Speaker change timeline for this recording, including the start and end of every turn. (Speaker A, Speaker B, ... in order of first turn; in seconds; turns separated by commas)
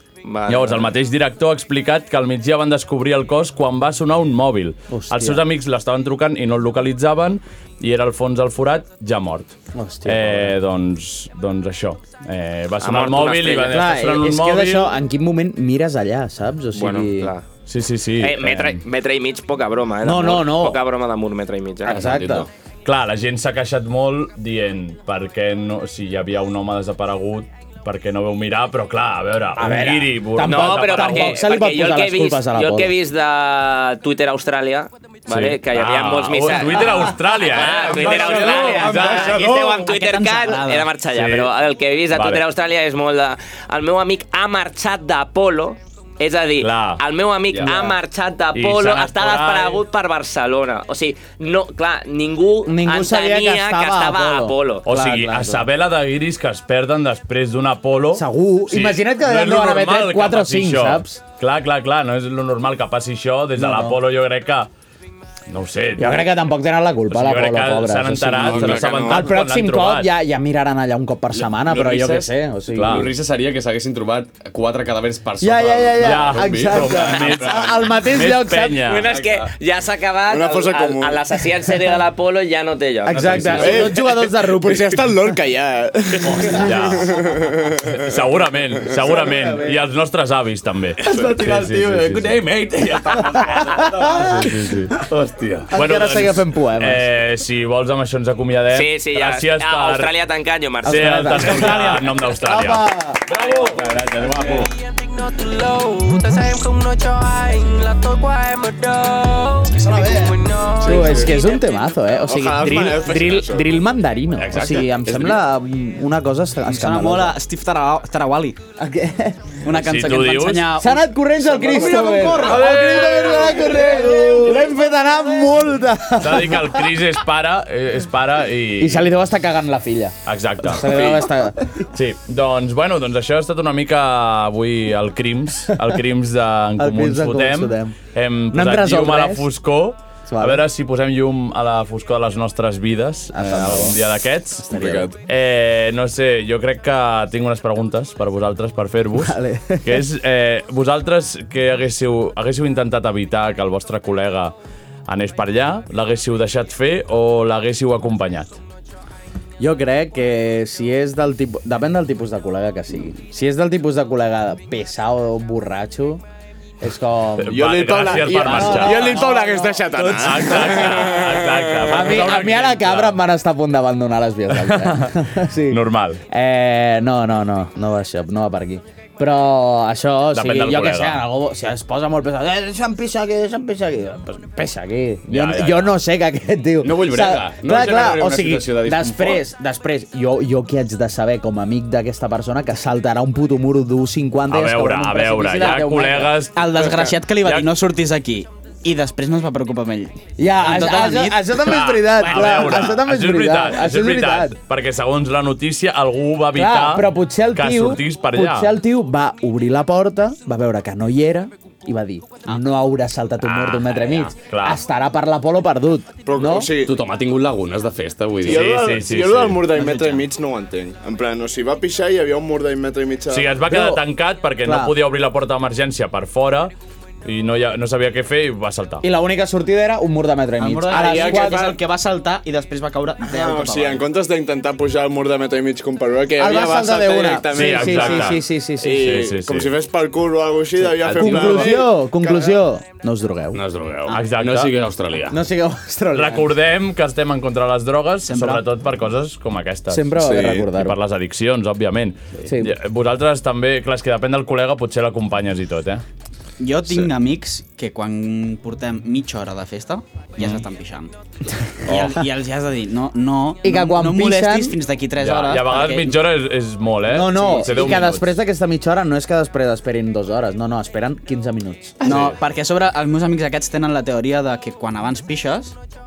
Speaker A: 0.2-0.9, Speaker B: 0.5-15.0, Speaker C: 4.9-5.4, Speaker C: 9.7-10.5, Speaker A: 12.8-13.8, Speaker C: 13.7-17.3, Speaker A: 16.7-17.4, Speaker B: 17.7-18.8, Speaker A: 18.2-22.0, Speaker C: 20.0-20.8, Speaker C: 21.9-22.5, Speaker D: 21.9-22.5, Speaker B: 22.8-31.4, Speaker C: 29.6-32.9, Speaker A: 30.4-54.8, Speaker B: 35.3-39.3, Speaker C: 36.8-37.2, Speaker D: 37.6-39.8, Speaker C: 38.4-39.2, Speaker E: 39.3-40.9, Speaker B: 41.1-41.5, Speaker B: 42.1-42.4, Speaker B: 46.6-47.0, Speaker D: 47.5-47.8, Speaker B: 48.5-49.8, Speaker C: 52.6-55.6, Speaker B: 54.9-64.7, Speaker C: 58.1-61.2, Speaker C: 63.5-64.0, Speaker B: 65.5-66.3, Speaker C: 66.0-73.1, Speaker B: 67.1-70.1, Speaker F: 68.4-69.3, Speaker D: 71.3-77.7, Speaker B: 72.7-73.1, Speaker C: 75.4-78.9, Speaker B: 76.0-79.1, Speaker A: 78.8-83.6, Speaker D: 79.1-79.5, Speaker F: 80.3-81.4, Speaker C: 83.0-85.1, Speaker D: 83.1-83.9, Speaker F: 83.5-87.9, Speaker B: 86.5-87.1, Speaker B: 87.9-92.4, Speaker D: 91.0-95.7, Speaker C: 93.5-94.4, Speaker B: 94.3-94.9, Speaker C: 95.7-97.1, Speaker B: 95.7-100.1, Speaker A: 98.7-101.8, Speaker C: 100.8-103.2, Speaker B: 100.8-104.5, Speaker A: 103.3-103.7, Speaker D: 103.4-104.7, Speaker G: 104.5-112.1, Speaker C: 109.9-110.3, Speaker F: 110.8-111.4, Speaker C: 110.8-117.4, Speaker F: 112.2-113.8, Speaker D: 114.3-115.4, Speaker E: 116.7-118.6, Speaker C: 118.8-119.6, Speaker E: 119.6-122.8, Speaker B: 119.7-120.8, Speaker C: 120.8-126.8, Speaker B: 122.4-123.8, Speaker D: 122.5-124.5, Speaker B: 126.2-129.1, Speaker C: 128.8-131.8, Speaker B: 130.2-131.2, Speaker B: 131.9-154.5, Speaker C: 136.8-138.0, Speaker C: 138.5-139.5, Speaker C: 140.3-140.6, Speaker C: 143.3-144.0, Speaker C: 144.6-145.1, Speaker F: 144.7-145.1, Speaker C: 149.2-150.0, Speaker B: 155.1-158.6, Speaker C: 159.6-166.2, Speaker C: 166.8-171.2, Speaker B: 167.4-169.3, Speaker F: 167.5-172.1, Speaker B: 170.0-173.2, Speaker C: 171.8-196.3, Speaker B: 174.6-176.2, Speaker B: 180.3-181.2, Speaker B: 185.3-185.9, Speaker D: 186.8-189.4, Speaker B: 194.5-197.7, Speaker E: 196.5-202.8, Speaker C: 200.4-204.6, Speaker B: 201.6-208.7, Speaker C: 206.5-216.7, Speaker B: 213.4-214.8, Speaker F: 216.2-217.0, Speaker D: 216.8-218.7, Speaker B: 218.4-219.7, Speaker F: 218.4-223.6, Speaker E: 219.7-220.2, Speaker B: 223.3-226.7, Speaker C: 223.7-224.0, Speaker C: 224.6-224.9, Speaker B: 227.2-229.0, Speaker C: 229.0-231.7, Speaker E: 230.6-234.0, Speaker F: 230.9-231.8, Speaker F: 233.2-242.6, Speaker C: 236.4-239.1, Speaker B: 237.5-239.7, Speaker D: 241.0-241.8, Speaker C: 241.1-243.6, Speaker D: 243.5-245.4, Speaker B: 244.1-244.7, Speaker C: 245.3-246.5, Speaker B: 246.1-256.0, Speaker E: 248.2-248.6, Speaker C: 249.9-251.0, Speaker F: 250.2-250.7, Speaker C: 252.4-252.7, Speaker E: 256.6-261.1, Speaker E: 261.8-266.2, Speaker D: 261.9-262.2, Speaker C: 263.6-264.8, Speaker B: 265.2-268.3, Speaker C: 267.1-272.0, Speaker E: 272.0-275.7, Speaker D: 272.1-272.4